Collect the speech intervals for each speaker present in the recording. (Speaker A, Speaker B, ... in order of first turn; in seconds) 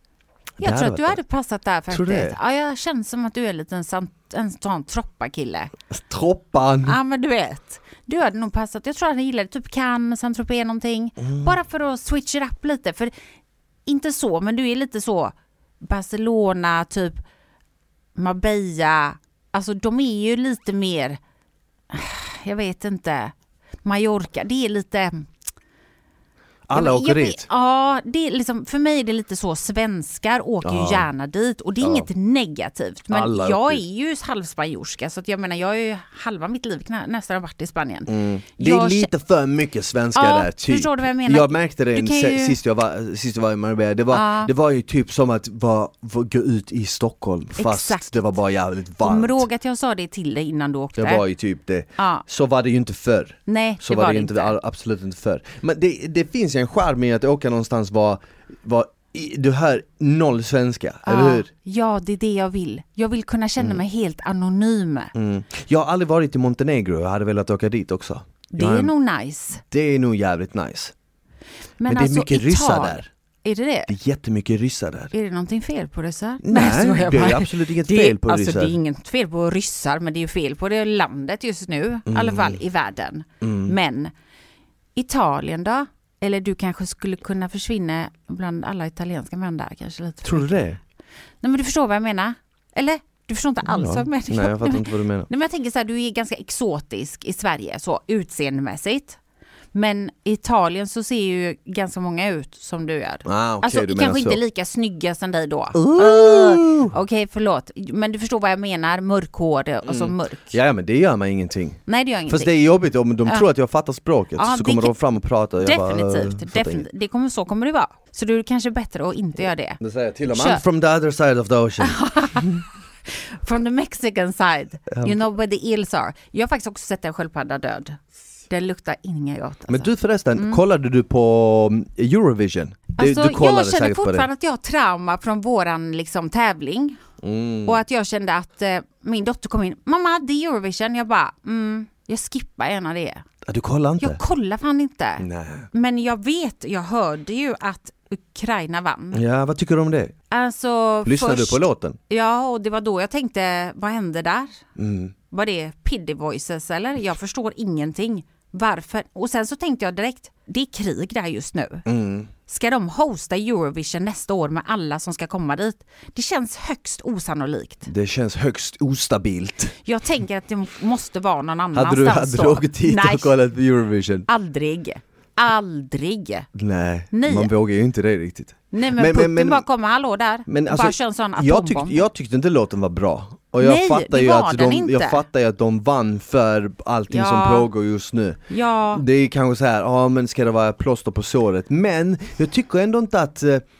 Speaker A: 0.6-1.2, 1.9-2.4, 5.9-7.0, 11.2-11.5, 26.7-27.4, 30.6-31.1, 31.8-32.1, 33.1-33.8, 38.1-49.4, 51.0-61.5, 65.1-68.9, 69.7-70.9, 71.9-73.1, 73.9-75.1, 76.4-78.7, 82.1-82.6, 83.4-83.7, 90.2-90.8, 93.6-95.3, 103.2-104.4, 105.7-106.9, 109.8-116.8, 119.8-122.6, 124.9-125.2, 129.7-134.3, 137.2-137.8, 143.4-144.2, 145.2-145.7, 149.1-150.1, 151.0-152.0, 154.8-155.1, 161.8-162.3, 167.9-169.7, 171.7-174.3, 176.5-179.6, 180.5-188.4, 188.9-193.6
Speaker B: 0.6-5.7, 6.8-13.1, 13.8-17.2, 18.1-21.2, 21.9-23.3, 23.8-25.3, 26.7-39.1, 40.1-42.6, 44.1-44.5, 47.5-48.0, 49.0-51.2, 52.0-52.2, 53.5-54.5, 61.0-65.1, 68.5-69.6, 71.8-73.9, 75.1-84.1, 85.0-90.6, 91.4-99.2, 99.7-110.5, 111.9-112.5, 114.3-115.0, 115.6-120.6, 121.8-130.6, 133.0-137.0, 137.6-143.2, 144.0-149.2, 150.3-154.6, 155.3-161.8, 162.4-167.9, 169.8-173.3, 174.3-176.5, 177.1-177.5, 178.7-182.0, 183.6-185.2, 187.1-187.7, 188.5-189.0